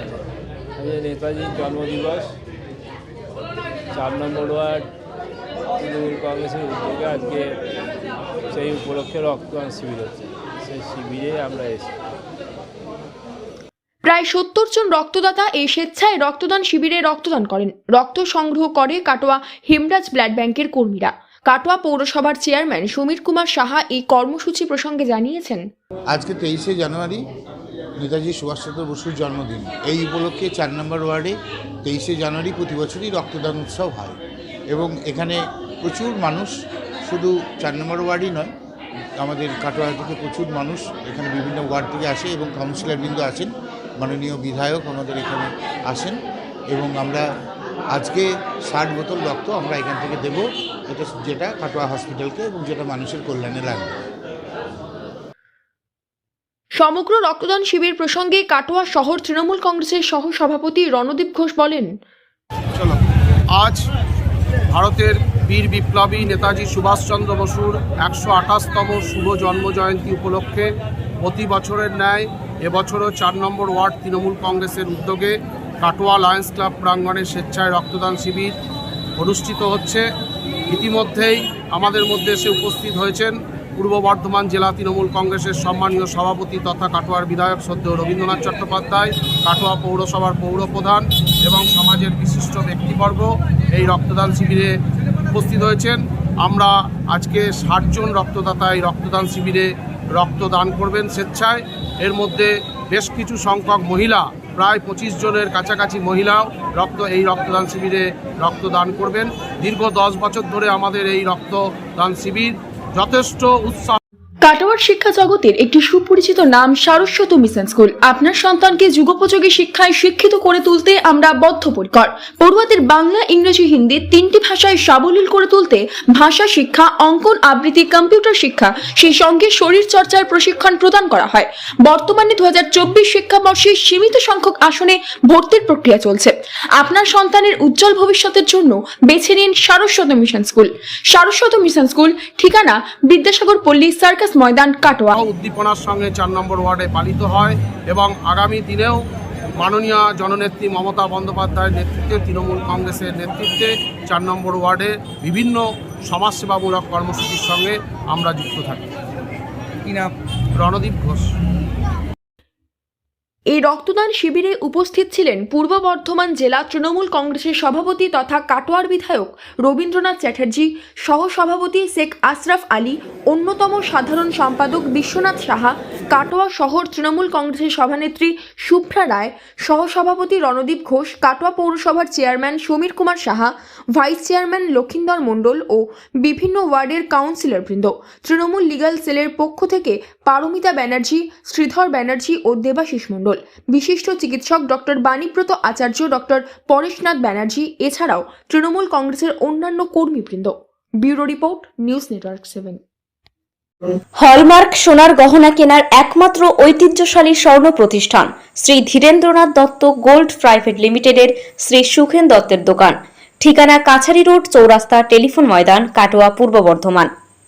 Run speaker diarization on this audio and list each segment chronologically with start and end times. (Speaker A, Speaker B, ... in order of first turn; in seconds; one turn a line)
Speaker A: 0.8-2.3
Speaker A: 3.9-4.9
Speaker A: 5.8-7.6
Speaker A: 8.5-11.9
Speaker B: 14.1-25.6
Speaker C: 26.1-27.2
Speaker C: 28.0-34.2
Speaker C: 34.7-36.5
Speaker C: 37.1-38.5
Speaker C: 39.2-46.2
Speaker C: 46.7-47.2
Speaker C: 47.9-54.0
Speaker B: 56.8-61.9
Speaker D: 62.7-63.0
Speaker D: 63.6-63.8
Speaker D: 64.7-70.7
Speaker D: 71.2-78.5
Speaker D: 79.2-80.0
Speaker D: 80.7-94.7
Speaker D: 95.3-114.0
Speaker B: 114.4-145.2
Speaker D: 145.1-149.0
Speaker D: 149.6-158.9
Speaker D: 160.6-161.3
Speaker B: 163.5-202.8
Speaker E: 204.2-217.1